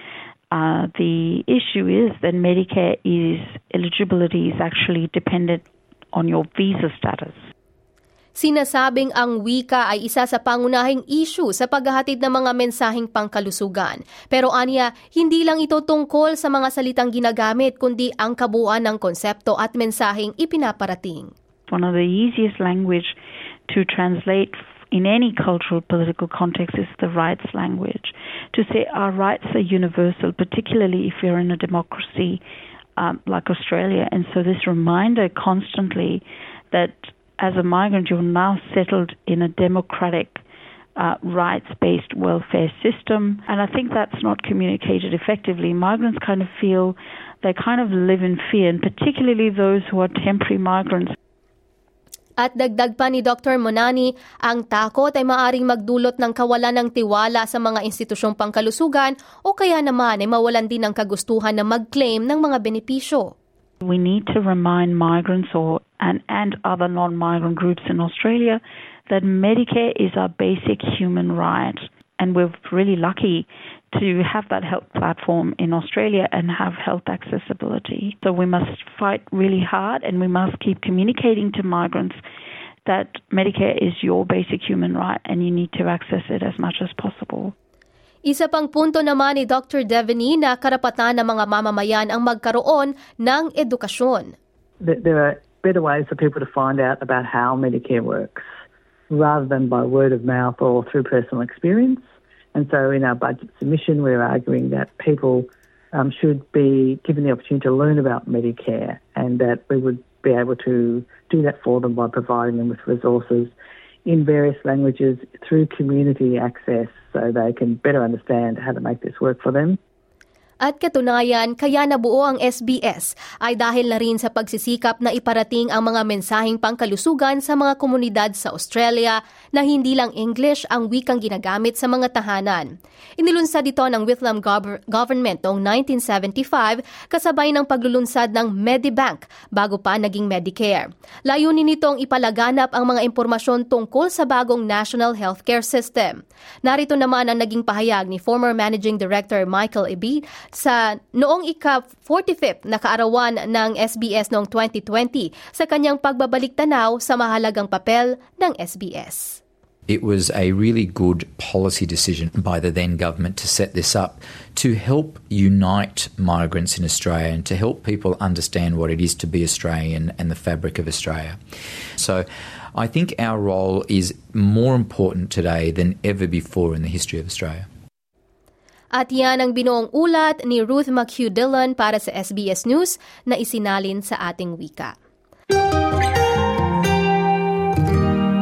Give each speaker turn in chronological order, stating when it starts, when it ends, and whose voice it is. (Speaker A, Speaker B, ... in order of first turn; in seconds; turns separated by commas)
Speaker A: 0.5-7.5, Speaker B: 8.3-21.3, Speaker A: 21.7-23.1, Speaker A: 23.7-32.4, Speaker A: 33.0-40.4, Speaker A: 41.0-51.1, Speaker B: 52.4-63.3, Speaker A: 63.8-82.2, Speaker A: 82.8-87.5, Speaker B: 88.2-94.3, Speaker C: 94.8-98.4, Speaker C: 99.1-102.0, Speaker C: 102.5-113.5, Speaker C: 114.0-119.8, Speaker B: 120.6-159.4, Speaker D: 159.9-171.4, Speaker D: 172.0-177.7, Speaker B: 178.9-184.9